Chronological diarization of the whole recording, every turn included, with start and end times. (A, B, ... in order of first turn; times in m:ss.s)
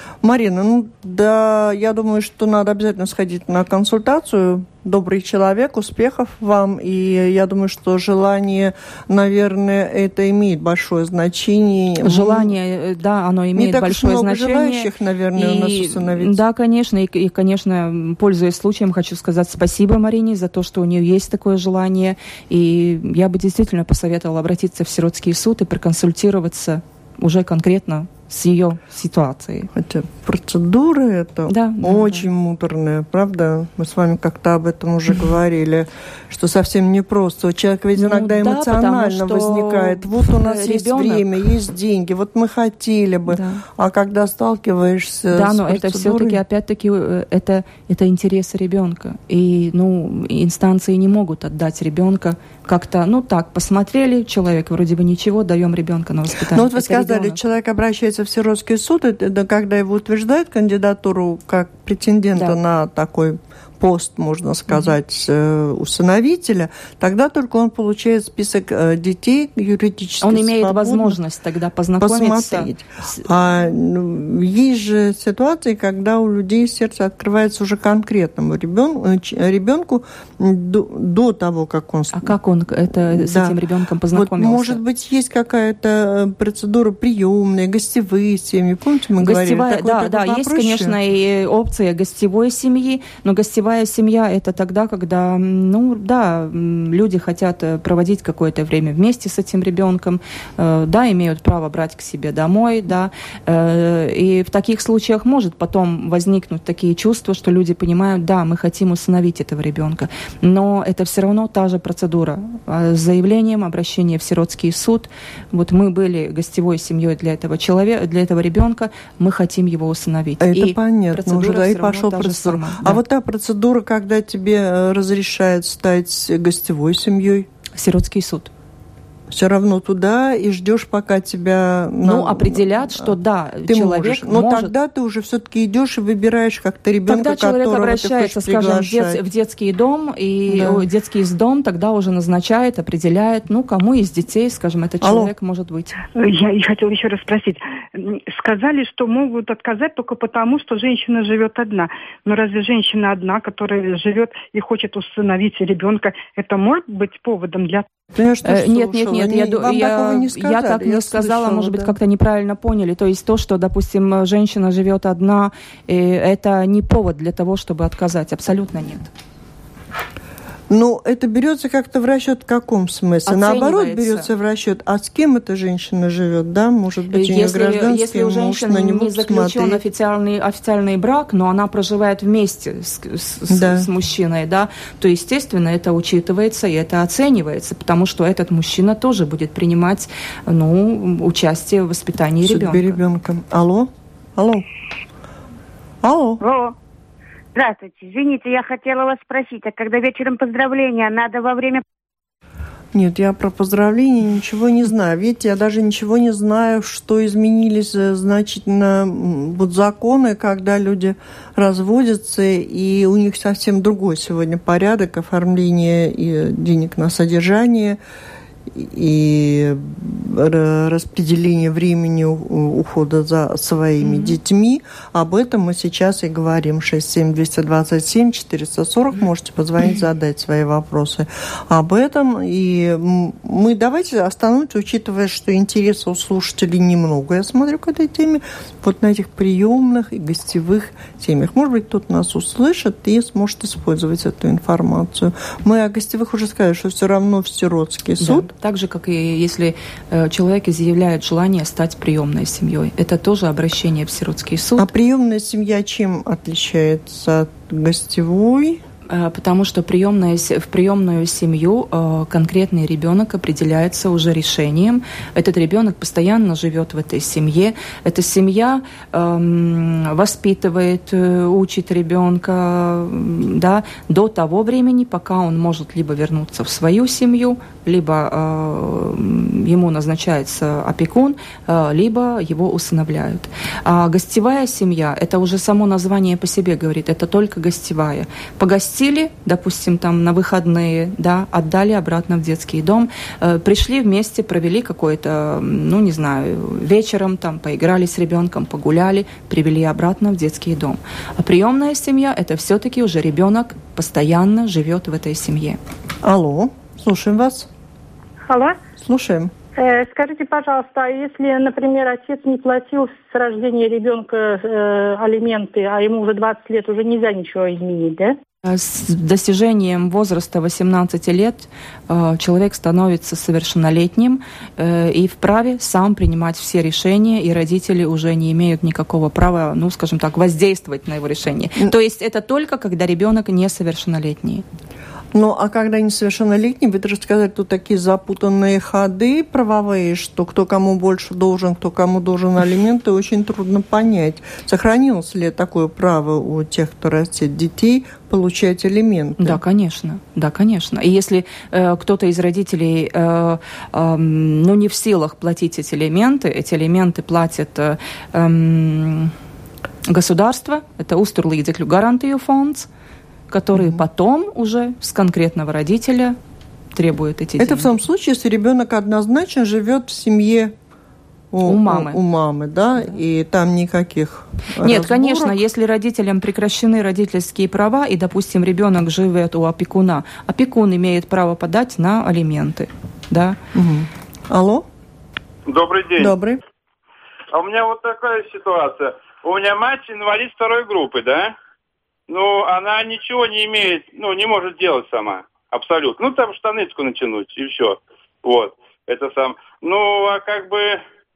0:00.2-0:12.5 A
0:12.0-0:29.7 B
0:13.5-0:16.4 A
0:29.7-0:46.4 A
0:31.5-0:32.3 B
0:37.9-0:41.4 B
0:43.3-0:43.6 B
0:45.3-0:57.4 B
0:56.5-1:11.2 A
1:10.2-1:13.2 B
1:12.0-1:22.3 A
1:22.1-1:24.8 B
1:23.1-1:23.6 A
1:24.1-1:30.9 A
1:29.2-2:03.0 B
2:00.4-2:07.5 A
2:07.7-2:08.5 B
2:09.3-2:13.1 A
2:12.0-2:14.7 B
2:13.7-2:19.2 A
2:17.1-2:26.0 B
2:20.5-2:20.9 A
2:25.0-2:25.3 A
2:26.1-2:37.8 C
2:38.1-2:42.0 A
2:38.4-2:49.1 B
2:50.7-2:59.8 A
2:53.2-2:54.3 B
2:57.1-3:13.0 B
3:03.5-3:03.9 A
3:12.4-3:14.6 A
3:16.0-3:16.4 A
3:16.4-3:16.7 D
3:17.5-3:21.8 D
3:22.9-3:38.0 A
3:38.7-4:08.5 A
3:44.0-3:44.4 B
4:08.2-4:14.9 B
4:14.8-4:18.8 A
4:19.1-5:05.8 B
5:06.2-5:07.7 A
5:09.0-5:09.5 A
5:09.8-5:18.3 E
5:10.0-5:14.3 C
5:15.0-5:18.2 C
5:18.6-5:34.6 B
5:35.3-5:49.6 A
5:49.4-5:59.3 B
6:00.0-6:02.9 B
6:03.5-6:06.4 B
6:03.7-6:04.0 A
6:06.9-6:07.9 B
6:07.6-6:10.7 A
6:11.5-6:15.6 A
6:11.6-6:12.2 B
6:14.8-6:23.6 B
6:23.7-6:24.8 A
6:25.7-6:26.3 F
6:26.2-6:26.6 A
6:27.5-6:31.5 F
6:32.3-6:41.0 F